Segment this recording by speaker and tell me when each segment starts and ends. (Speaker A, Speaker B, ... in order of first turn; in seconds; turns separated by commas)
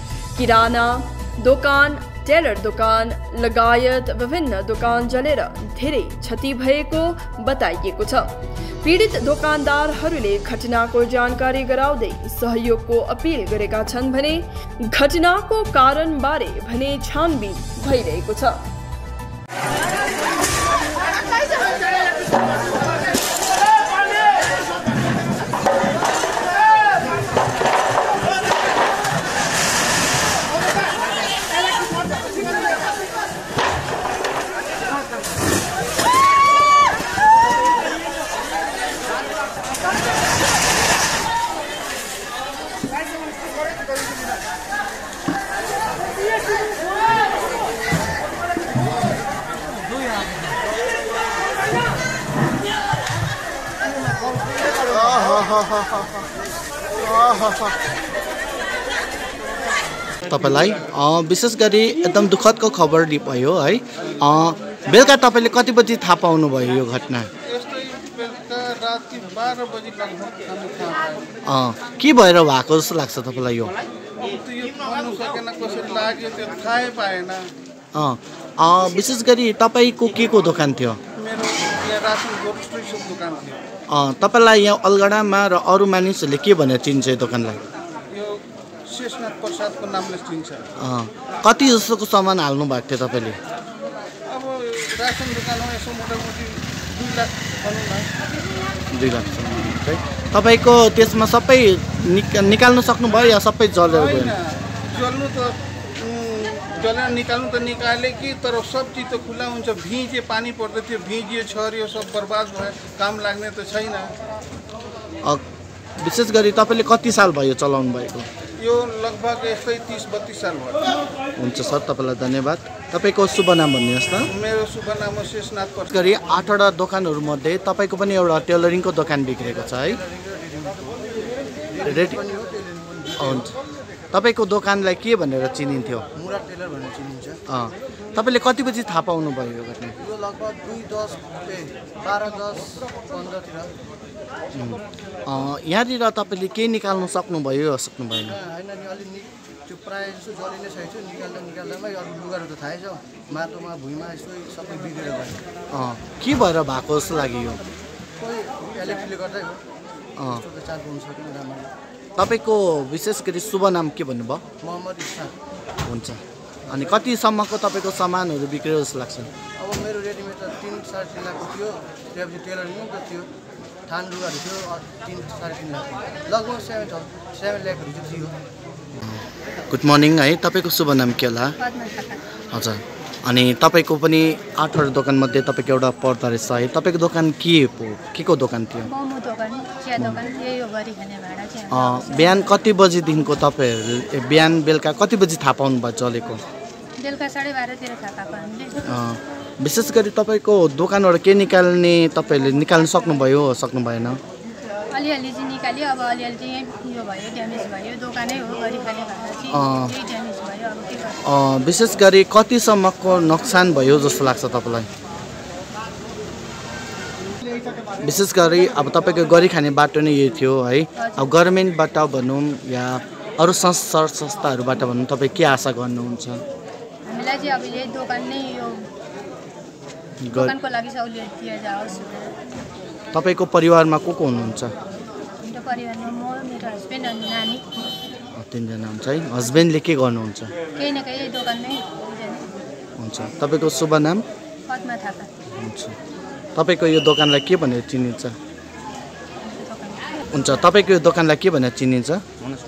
Speaker A: 0.3-18.6, Speaker B: 54.8-56.2, Speaker B: 57.0-57.7, Speaker B: 60.3-67.3, Speaker C: 67.5-71.3, Speaker B: 71.5-73.8, Speaker C: 74.2-77.5, Speaker B: 77.9-81.0, Speaker C: 81.2-83.6, Speaker B: 83.9-87.6, Speaker C: 88.1-90.7, Speaker B: 90.8-93.4, Speaker C: 94.3-98.3, Speaker B: 98.9-104.4, Speaker C: 103.9-114.1, Speaker B: 116.0-118.3, Speaker C: 118.6-121.0, Speaker B: 121.4-124.3, Speaker C: 124.2-126.0, Speaker B: 125.9-130.0, Speaker D: 129.6-133.5, Speaker B: 131.8-132.2, Speaker B: 133.2-133.5, Speaker B: 134.1-136.1, Speaker D: 136.2-137.4, Speaker B: 137.5-140.0, Speaker D: 140.0-143.7, Speaker B: 144.5-148.4, Speaker D: 148.3-155.4, Speaker B: 155.7-157.6, Speaker D: 158.2-159.6, Speaker B: 160.2-160.4, Speaker D: 160.3-161.7, Speaker B: 162.2-164.4, Speaker D: 164.6-165.3, Speaker B: 165.8-169.3, Speaker D: 169.6-173.3, Speaker D: 173.9-178.3, Speaker B: 178.9-181.6, Speaker E: 181.6-182.2, Speaker B: 182.5-188.9, Speaker E: 188.9-192.6, Speaker B: 191.7-196.4, Speaker E: 197.0-199.0, Speaker B: 198.9-204.2, Speaker E: 204.9-211.2, Speaker B: 209.5-209.9, Speaker B: 211.2-214.9, Speaker B: 218.0-226.4, Speaker E: 221.0-221.3, Speaker E: 227.1-228.9, Speaker B: 230.2-230.6, Speaker E: 230.3-232.3, Speaker B: 233.1-234.7, Speaker E: 235.4-237.6, Speaker B: 238.3-240.5, Speaker E: 240.8-242.5, Speaker B: 243.0-244.2, Speaker E: 244.7-245.3, Speaker B: 245.5-245.9, Speaker B: 246.6-248.3, Speaker E: 249.4-250.7, Speaker B: 250.3-252.5